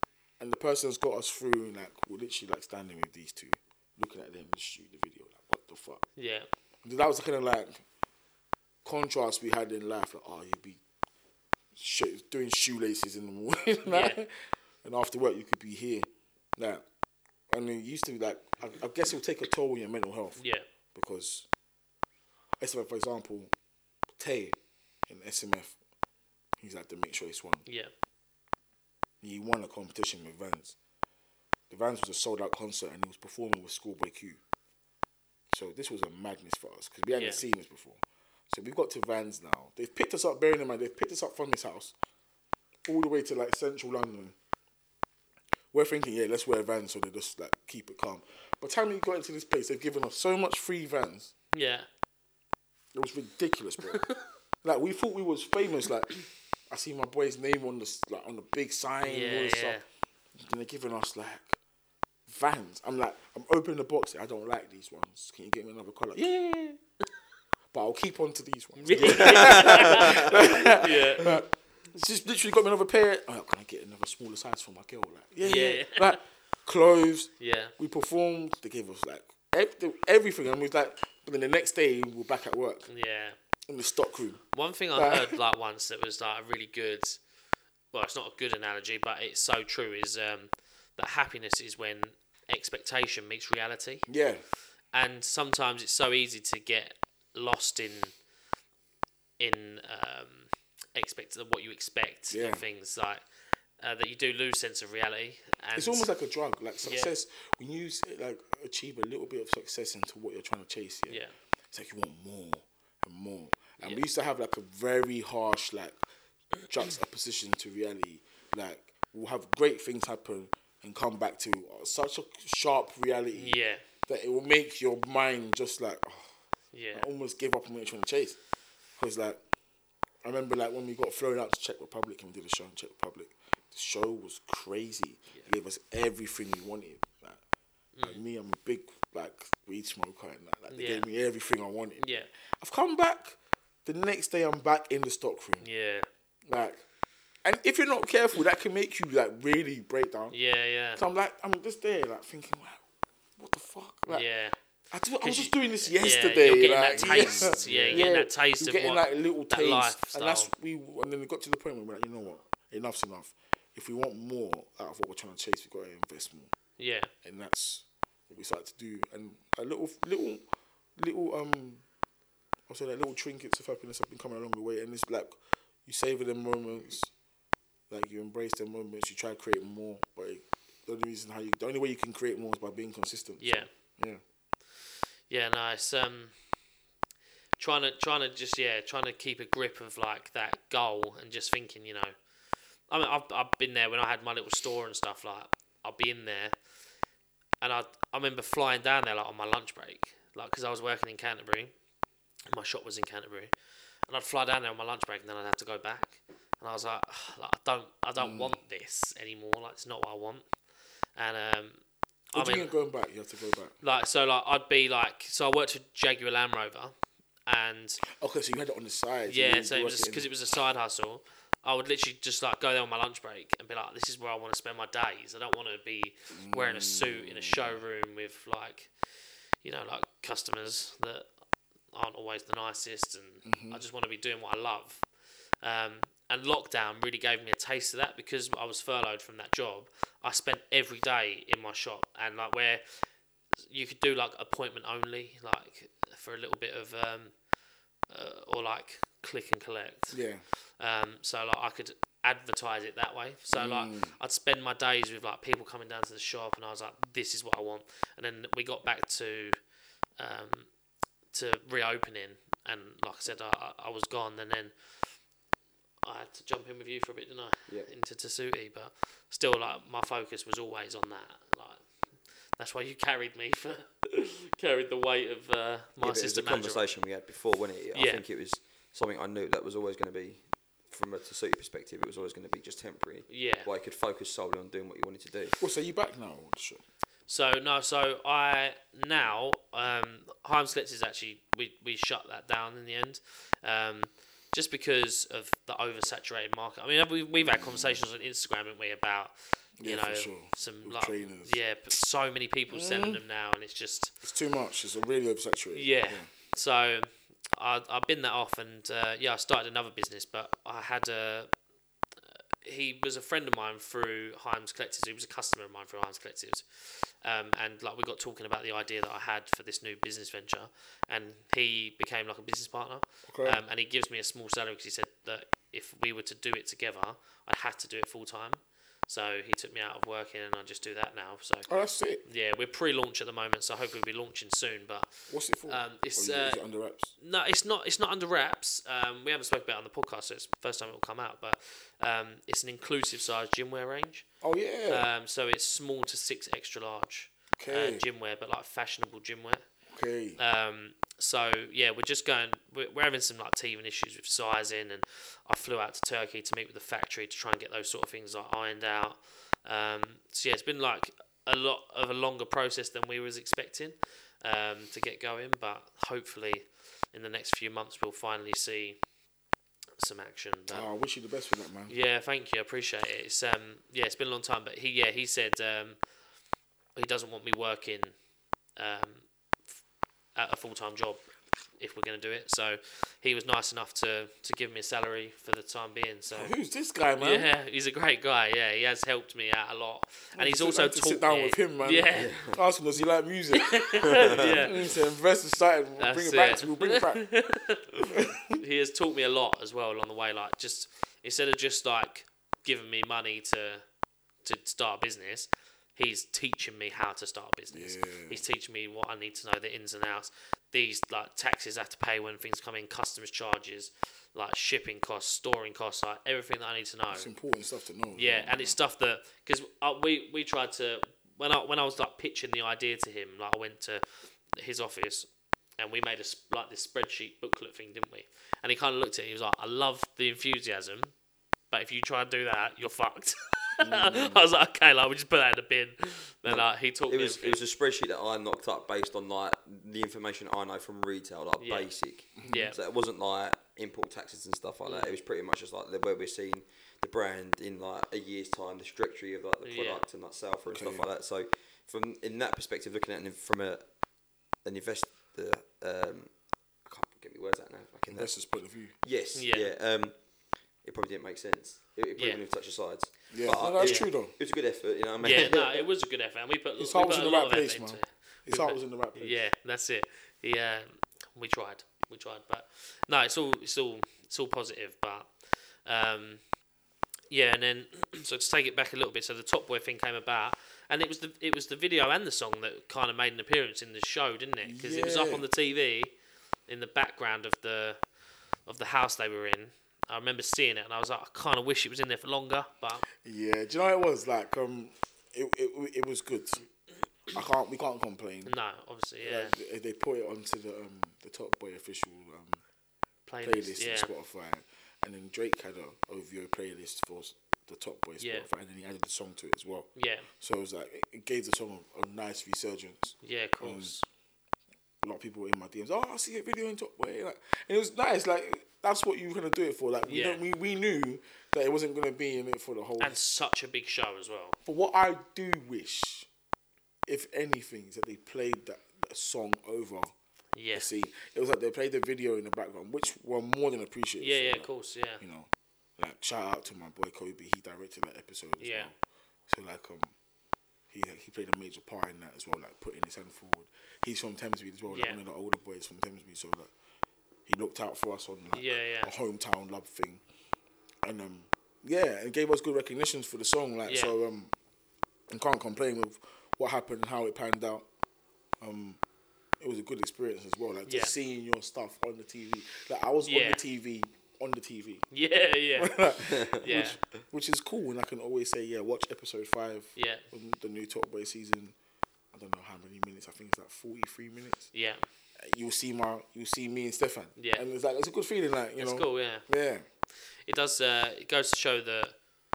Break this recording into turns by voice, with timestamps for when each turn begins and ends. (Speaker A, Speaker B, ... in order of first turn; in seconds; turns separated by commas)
Speaker A: 0.4-6.0, Speaker B: 6.2-6.5, Speaker A: 6.8-7.8, Speaker A: 8.8-10.8, Speaker A: 11.8-16.8, Speaker B: 13.9-14.2, Speaker A: 17.5-20.4, Speaker B: 20.4-20.6, Speaker A: 20.9-21.5, Speaker A: 22.6-23.5, Speaker A: 24.2-25.8, Speaker A: 26.6-27.7, Speaker B: 27.7-27.9, Speaker A: 29.2-30.8, Speaker A: 31.7-34.4, Speaker A: 35.5-41.9, Speaker B: 37.1-37.4, Speaker A: 42.9-44.4, Speaker A: 45.7-51.3, Speaker B: 51.5-51.9, Speaker A: 52.9-54.1, Speaker A: 54.6-56.1, Speaker A: 56.7-59.8, Speaker B: 59.0-59.8, Speaker A: 60.4-61.6, Speaker A: 62.3-66.8, Speaker A: 67.7-82.9, Speaker B: 68.8-71.4, Speaker C: 69.0-70.3, Speaker B: 75.4-76.2, Speaker B: 77.4-77.8, Speaker B: 82.9-83.4, Speaker A: 83.7-84.4, Speaker B: 84.5-87.2, Speaker A: 85.0-85.4, Speaker B: 87.9-94.1, Speaker A: 94.1-94.4, Speaker B: 94.9-98.1, Speaker B: 99.4-103.2, Speaker A: 102.3-102.7, Speaker B: 103.8-106.1, Speaker A: 105.8-116.0, Speaker B: 106.8-107.1, Speaker B: 111.1-111.3, Speaker A: 116.7-126.3, Speaker B: 123.3-123.8, Speaker B: 126.7-127.1, Speaker A: 126.9-128.4, Speaker A: 129.0-129.4, Speaker A: 130.2-137.4, Speaker B: 137.9-138.2, Speaker A: 138.0-145.7, Speaker B: 140.7-141.1, Speaker B: 142.0-142.3, Speaker B: 145.6-146.1, Speaker A: 146.5-146.8, Speaker A: 147.4-150.3, Speaker B: 150.3-151.0, Speaker A: 151.0-152.8, Speaker A: 153.4-154.3, Speaker B: 154.1-154.6, Speaker A: 154.9-166.5, Speaker B: 155.2-160.5, Speaker C: 157.0-158.1, Speaker B: 166.8-167.1, Speaker A: 167.2-171.8, Speaker A: 172.7-177.1, Speaker A: 177.9-184.2, Speaker B: 183.4-183.7, Speaker B: 185.3-186.3, Speaker B: 187.6-192.1, Speaker B: 192.9-196.6, Speaker B: 197.6-201.7, Speaker B: 202.5-203.5, Speaker B: 204.1-210.4, Speaker A: 208.2-208.6, Speaker B: 211.2-211.8, Speaker B: 212.3-212.7, Speaker A: 212.3-213.8, Speaker B: 213.8-216.9, Speaker B: 217.5-218.0, Speaker A: 218.2-220.3, Speaker B: 219.3-228.9, Speaker A: 226.3-227.8, Speaker B: 229.6-231.3, Speaker B: 231.9-235.1, Speaker A: 233.4-233.8, Speaker B: 235.6-243.1, Speaker B: 243.7-247.3, Speaker B: 248.1-250.2, Speaker A: 250.1-250.4, Speaker B: 250.8-259.6, Speaker A: 253.5-254.2, Speaker B: 260.2-260.7, Speaker B: 261.3-264.7, Speaker B: 266.0-271.8, Speaker B: 272.6-276.8, Speaker C: 276.0-285.6, Speaker B: 277.9-278.2, Speaker B: 283.3-283.7, Speaker A: 285.6-286.8, Speaker B: 287.3-304.2, Speaker A: 297.4-298.0, Speaker A: 299.8-301.6, Speaker A: 302.7-303.2, Speaker A: 304.2-306.3, Speaker B: 305.7-311.5, Speaker B: 312.6-331.7, Speaker A: 323.3-323.6, Speaker A: 331.7-332.2, Speaker B: 332.2-336.6, Speaker A: 335.3-337.1, Speaker B: 337.2-344.3, Speaker A: 344.4-345.1, Speaker B: 344.9-349.6, Speaker A: 347.5-348.1, Speaker A: 349.9-350.4, Speaker B: 350.4-369.0, Speaker B: 370.0-370.9, Speaker A: 370.7-371.9, Speaker B: 371.9-376.0, Speaker B: 377.0-378.1, Speaker B: 378.8-379.3, Speaker B: 380.4-381.2, Speaker B: 381.8-386.5, Speaker A: 386.3-387.5, Speaker B: 387.2-392.4, Speaker A: 390.4-397.3, Speaker C: 392.1-392.6, Speaker B: 393.6-394.9, Speaker C: 394.0-394.8, Speaker B: 396.0-403.8, Speaker A: 398.1-398.6, Speaker B: 404.4-417.3, Speaker A: 407.7-408.4, Speaker A: 417.1-418.8, Speaker B: 418.1-431.1, Speaker B: 431.7-437.6, Speaker A: 433.8-434.4, Speaker C: 437.1-453.9, Speaker B: 441.6-441.9, Speaker A: 442.4-442.7, Speaker B: 442.4-442.8, Speaker B: 444.9-445.1, Speaker B: 449.6-450.0, Speaker A: 450.7-451.1, Speaker C: 454.6-456.3, Speaker C: 456.9-458.5, Speaker A: 458.1-458.9, Speaker C: 459.0-460.2, Speaker B: 459.4-459.7, Speaker C: 460.8-465.9, Speaker A: 463.3-464.3, Speaker B: 463.8-464.1, Speaker B: 465.2-476.4, Speaker A: 466.8-469.4, Speaker B: 477.3-486.1, Speaker A: 484.6-485.5, Speaker B: 486.7-488.0, Speaker B: 488.7-493.1, Speaker A: 493.2-496.7, Speaker A: 497.3-498.5, Speaker B: 498.4-499.6, Speaker A: 499.2-502.6, Speaker B: 503.3-504.1, Speaker A: 503.4-509.9, Speaker B: 508.2-508.5, Speaker B: 510.0-510.3, Speaker A: 510.4-513.9, Speaker B: 513.2-514.0, Speaker A: 515.0-523.2, Speaker B: 520.1-520.4, Speaker B: 523.0-524.6, Speaker A: 524.6-526.3, Speaker A: 527.1-530.1, Speaker B: 530.5-530.9, Speaker A: 530.7-539.0, Speaker B: 534.2-535.2, Speaker B: 538.6-538.9, Speaker A: 539.5-540.1, Speaker A: 540.9-546.7, Speaker B: 544.9-545.2, Speaker A: 547.5-550.2, Speaker B: 548.5-549.1, Speaker A: 551.0-554.5, Speaker B: 553.9-554.1, Speaker A: 555.3-557.9, Speaker A: 558.6-559.0, Speaker A: 559.6-565.0, Speaker B: 560.9-561.1, Speaker B: 563.2-563.6, Speaker B: 565.1-567.0, Speaker A: 565.8-571.8, Speaker B: 570.0-570.2, Speaker A: 572.3-574.7, Speaker B: 574.7-575.1, Speaker A: 575.4-579.9, Speaker B: 577.4-577.6, Speaker B: 578.8-579.5, Speaker B: 580.5-582.1